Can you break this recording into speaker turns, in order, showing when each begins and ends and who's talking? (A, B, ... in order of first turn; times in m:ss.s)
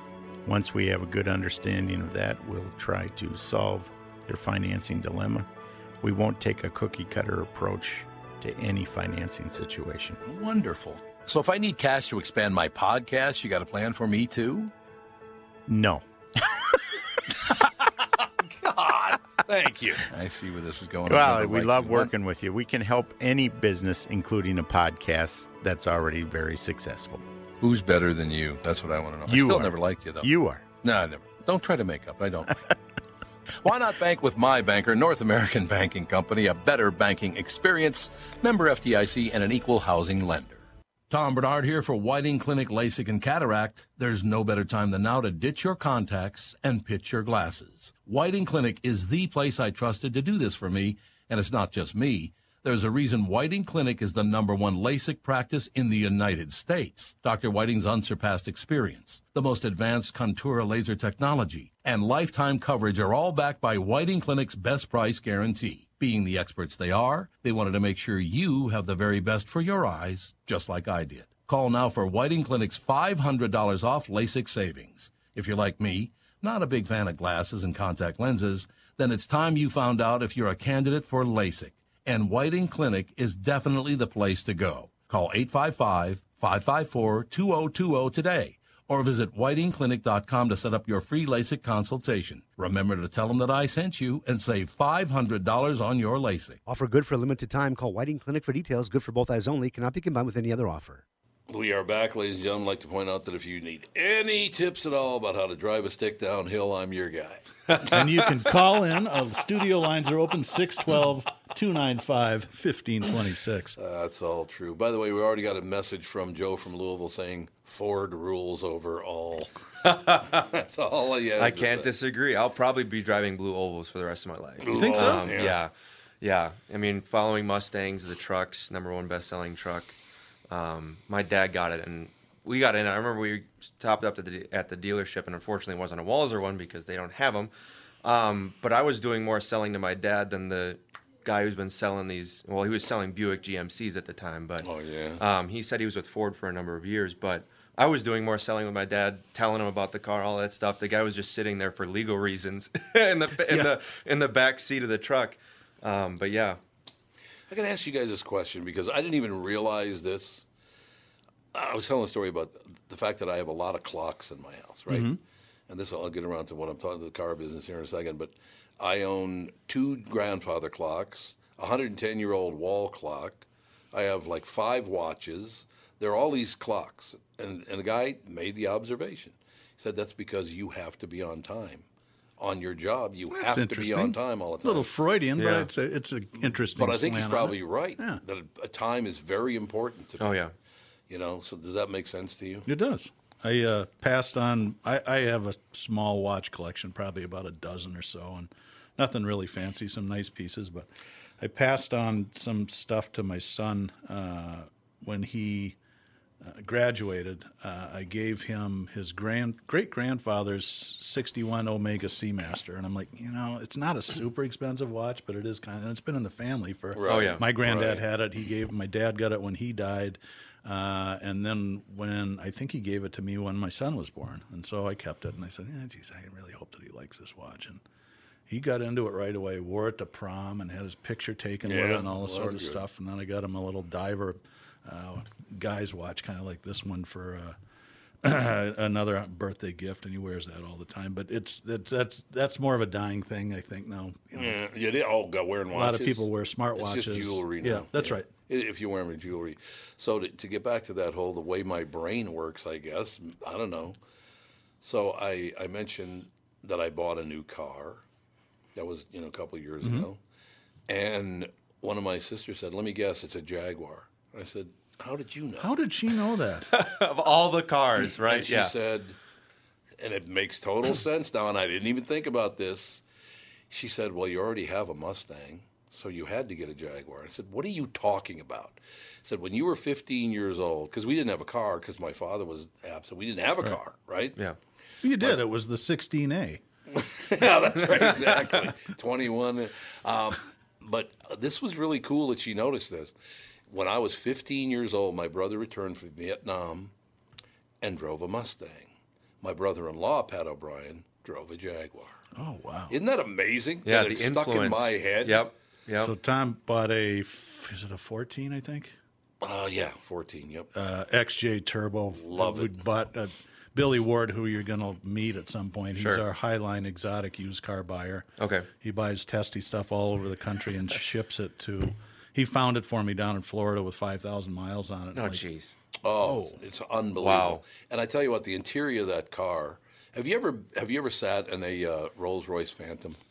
0:00.4-0:05.5 A
0:06.0-0:10.2 A
0:10.2-0:14.7 B
0:15.7-0:16.0 A
0:18.4-0:22.1 B
0:21.0-0:27.2 A
0:27.6-0:30.3 B
0:29.3-0:30.6 A
0:30.8-0:32.6 B
0:33.6-1:36.6 B
1:36.6-1:41.0 C
1:41.5-1:48.0 B
1:47.8-1:53.8 D
1:53.8-2:01.9 B
1:59.8-2:00.3 E
2:01.4-2:10.0 E
2:04.6-2:05.6 B
2:04.7-2:05.3 D
2:10.5-2:17.5 E
2:18.0-2:24.7 E
2:24.6-2:25.2 B
2:25.2-2:36.6 E
2:37.5-2:40.4 B
2:41.5-2:45.2 B
2:44.9-2:45.2 D
2:45.7-3:01.8 B
3:02.4-3:04.9 B
3:03.3-3:08.2 D
3:05.4-3:05.7 E
3:06.7-3:10.4 B
3:10.2-3:10.5 E
3:11.1-3:12.7 B
3:12.6-3:25.8 D
3:26.4-3:47.8 D
3:36.9-3:38.0 B
3:37.0-3:37.4 E
3:48.5-3:57.6 D
3:51.6-3:52.8 B
3:58.2-4:04.5 D
4:04.3-4:14.0 B
4:05.7-4:08.3 D
4:14.8-4:18.0 B
4:18.7-4:20.2 B
4:19.8-4:20.1 D
4:20.9-4:25.7 B
4:25.6-4:26.7 D
4:26.7-4:28.7 E
4:28.0-4:29.2 B
4:30.0-4:33.0 B
4:33.7-4:44.4 B
4:45.0-4:46.6 D
4:46.9-4:53.1 B
4:53.7-4:56.9 B
4:57.8-5:02.2 B
5:02.4-5:03.0 D
5:02.9-5:05.4 B
5:03.8-5:06.1 E
5:05.9-5:09.0 D
5:09.4-5:10.7 B
5:10.7-5:18.3 D
5:12.2-5:12.7 B
5:16.0-5:16.2 E
5:18.4-5:18.7 E
5:18.8-5:25.4 D
5:25.1-5:25.7 E
5:26.0-5:33.2 B
5:26.2-5:26.6 D
5:27.2-5:27.6 E